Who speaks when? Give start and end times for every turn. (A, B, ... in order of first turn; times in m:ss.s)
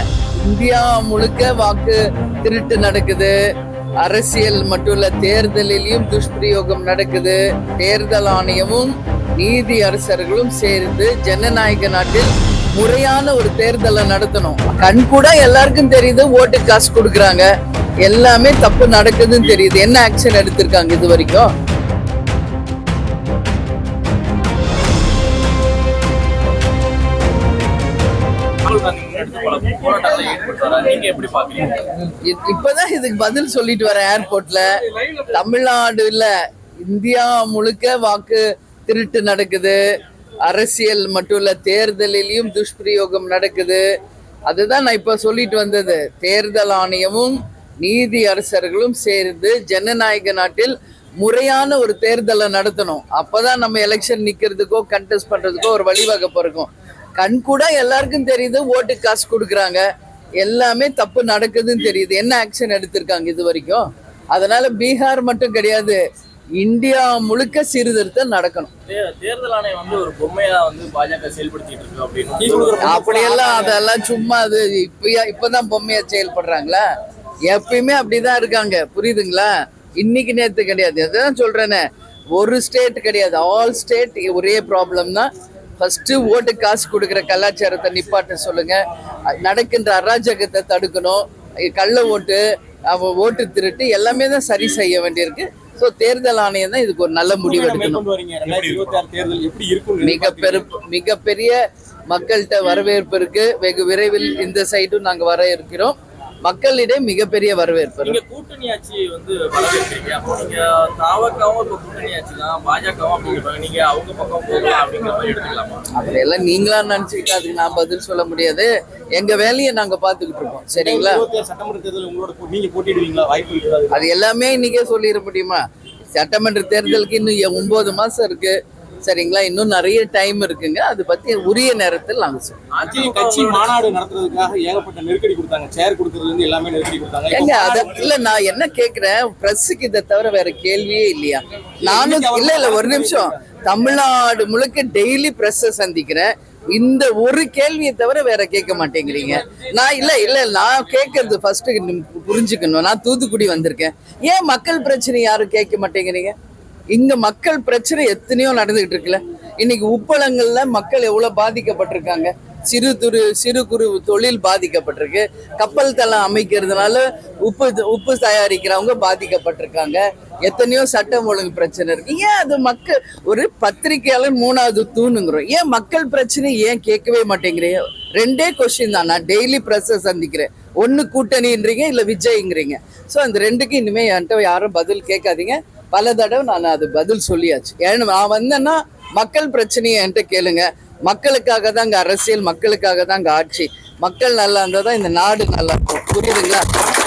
0:00.4-0:03.4 A
0:04.0-0:17.5 A
0:18.0-0:21.5 A
0:28.6-0:32.0 B
0:32.3-0:36.3 A
0:36.8-0:39.8 A
0:40.5-0:43.8 A
0:44.5-0:59.8 A
1:00.4-1:06.0 A
1:06.6-1:08.7 A
1:08.9-1:13.7 B
1:12.4-1:13.5 C
1:12.8-1:16.8 A
1:17.5-1:19.5 A
1:20.0-1:21.8 A
1:22.4-1:25.3 A
1:25.8-1:28.8 A
1:29.4-1:38.0 A
1:37.3-1:40.6 C
1:40.0-1:41.6 A
1:42.1-1:48.2 A
1:48.0-1:55.9 B
1:55.9-2:01.2 A
2:00.8-2:04.0 C
2:03.9-2:05.6 A
2:06.2-2:12.6 A
2:12.7-2:13.7 B
2:12.8-2:18.1 C
2:17.3-2:36.4 A
2:21.8-2:23.4 C
2:29.4-2:29.7 B
2:36.9-3:16.7 A